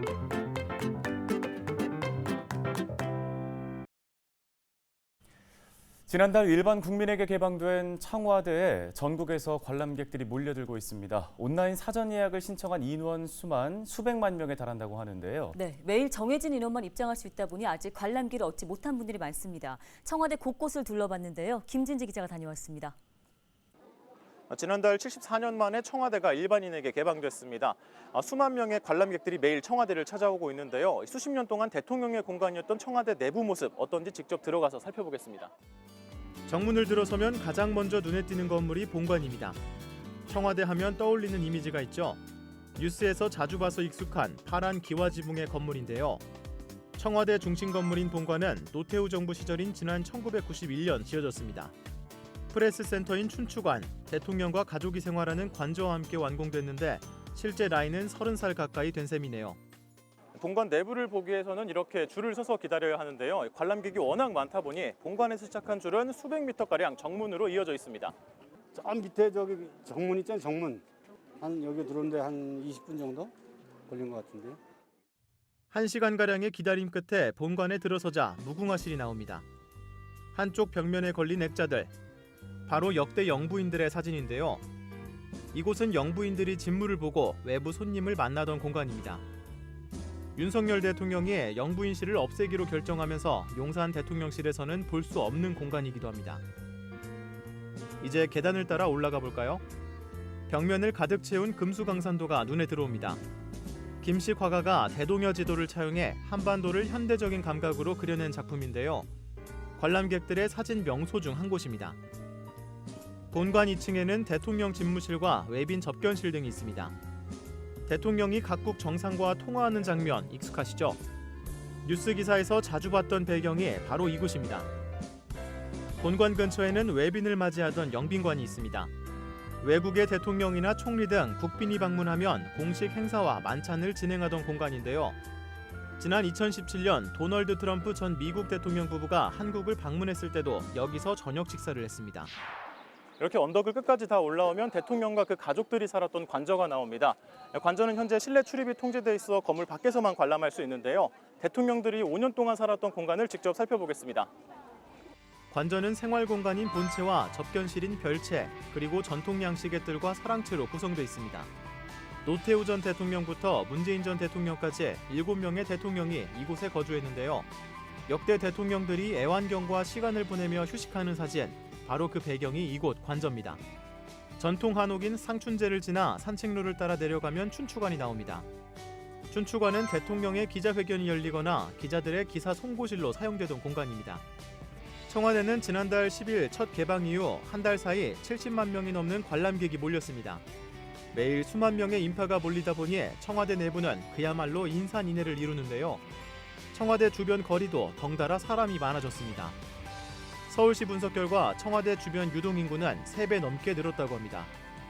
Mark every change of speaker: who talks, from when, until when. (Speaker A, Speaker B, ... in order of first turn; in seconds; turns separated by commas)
Speaker A: 6.1-15.6, Speaker B: 15.5-22.9, Speaker C: 24.5-35.5, Speaker D: 36.5-39.6, Speaker D: 40.3-42.2, Speaker D: 42.8-46.2, Speaker D: 47.0-51.7, Speaker D: 52.5-59.6, Speaker C: 60.4-68.1, Speaker E: 68.7-70.8, Speaker E: 71.4-73.3, Speaker E: 73.9-74.6, Speaker D: 75.7-79.4, Speaker D: 80.3-81.9, Speaker D: 82.7-84.6, Speaker D: 85.5-89.2, Speaker D: 90.3-96.4, Speaker D: 98.0-99.6, Speaker D: 100.5-103.2, Speaker D: 104.0-109.1, Speaker D: 109.8-112.0, Speaker D: 113.3-116.9, Speaker D: 117.9-121.0, Speaker D: 121.8-124.7, Speaker D: 126.0-128.9, Speaker D: 129.6-135.2, Speaker D: 136.0-142.3, Speaker C: 143.2-154.3, Speaker D: 155.5-161.5, Speaker D: 162.2-167.5, Speaker D: 168.1-173.6, Speaker D: 174.4-178.5, Speaker D: 179.3-184.2, Speaker D: 185.1-190.4, Speaker D: 191.1-196.0, Speaker D: 196.7-199.6, Speaker D: 200.5-204.5